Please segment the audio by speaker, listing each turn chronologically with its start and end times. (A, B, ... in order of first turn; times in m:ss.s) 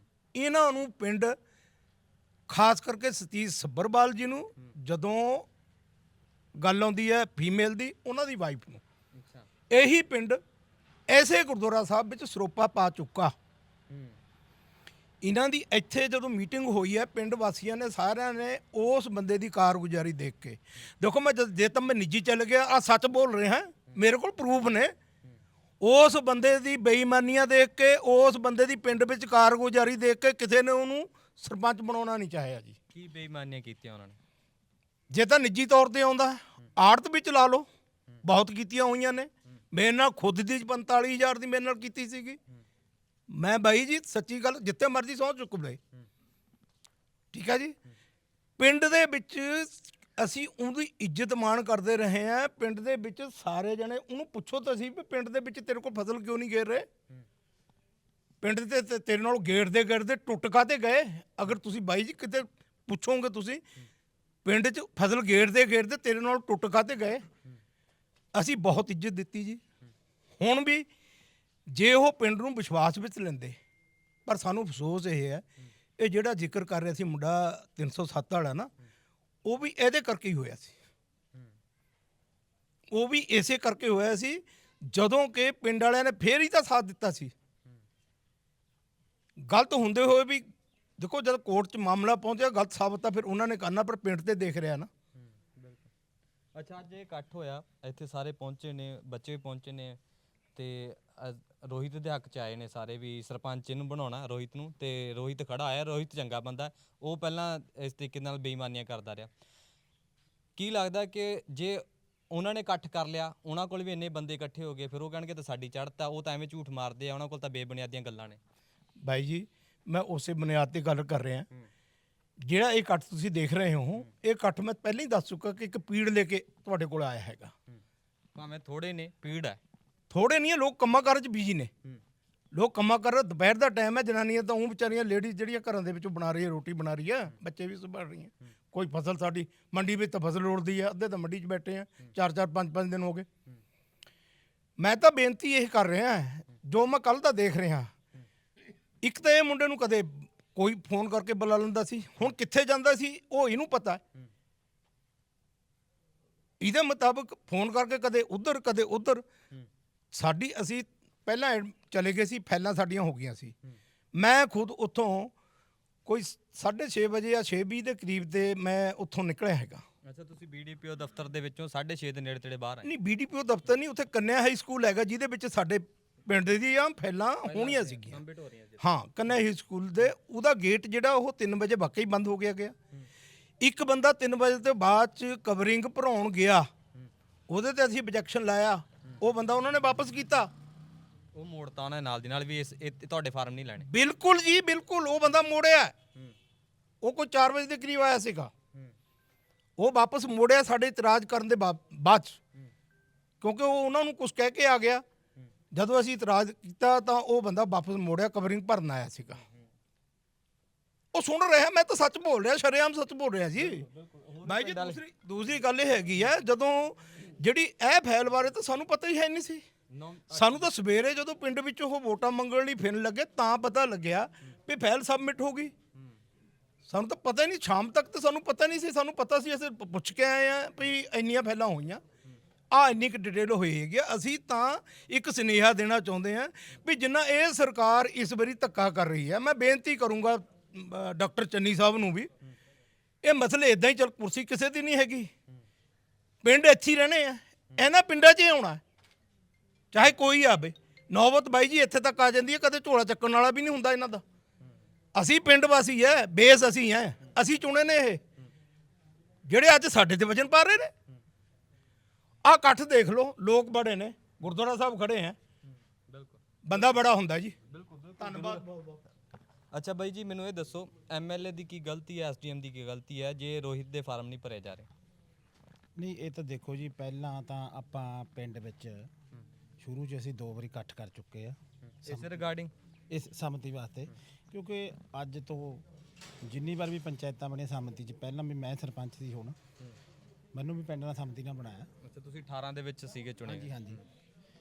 0:00.4-0:01.4 A
0:02.5-0:05.5 A
0:06.6-0:08.8 A
0:09.2-0:09.5 B
0:09.7-0:10.4 A
0:11.1-0:13.4 A
0:13.9-0:14.2 B
0:15.2-0:24.9 A
0:25.8-0:32.8 A
0:32.9-0:34.2 B
0:35.1-0:37.7 A
0:38.2-0:42.4 A
0:43.3-0:45.8 A
0:47.3-0:47.8 A
0:48.6-0:56.9 A
0:58.4-1:03.6 A
1:04.4-1:07.2 A
1:08.3-1:09.6 A
1:10.4-1:10.9 A
1:11.7-1:13.6 A
1:14.3-1:15.4 A
1:16.0-1:18.7 A
1:19.5-1:20.7 A
1:22.9-1:27.3 A
1:29.5-1:30.5 A
1:31.0-1:34.9 A
1:35.2-1:35.9 B
1:36.6-1:40.0 B
1:40.6-1:49.3 B
1:50.6-1:58.4 B
1:59.0-2:01.5 A
2:02.4-2:07.5 A
2:08.4-2:09.6 B
2:10.1-2:11.7 A
2:12.5-2:23.3 A
2:24.8-2:27.9 A
2:29.0-2:34.0 A
2:36.6-2:39.2 A
2:40.1-2:43.5 A
2:44.1-2:45.3 A
2:46.1-2:49.8 A
2:50.0-2:52.9 B
2:52.8-2:58.2 A
2:57.4-2:58.8 B
2:58.8-3:02.8 A
3:03.6-3:06.7 A
3:07.5-3:10.5 A
3:11.4-3:13.9 B
3:13.8-3:15.9 A
3:17.0-3:18.5 A
3:19.8-3:22.4 A
3:23.4-3:25.0 A
3:25.7-3:29.4 A
3:31.1-3:33.9 A
3:33.6-3:35.0 B
3:34.4-3:39.6 A
3:39.9-3:40.7 B
3:40.3-3:45.7 A
3:46.9-3:52.0 A
3:52.7-4:02.3 A
4:03.2-4:05.3 A
4:06.4-4:08.8 A
4:09.9-4:14.2 A
4:15.2-4:18.2 A
4:19.5-4:20.9 A
4:22.4-4:25.4 A
4:26.1-4:26.8 B
4:26.6-4:27.6 A
4:27.7-4:28.6 B
4:28.2-4:29.0 A
4:29.7-4:34.9 B
4:36.0-4:39.1 C
4:39.8-4:42.4 C
4:42.0-4:42.7 B
4:43.1-4:45.8 C
4:46.4-4:49.6 C
4:50.6-4:51.9 C
4:52.0-4:54.0 B
4:53.4-4:54.0 C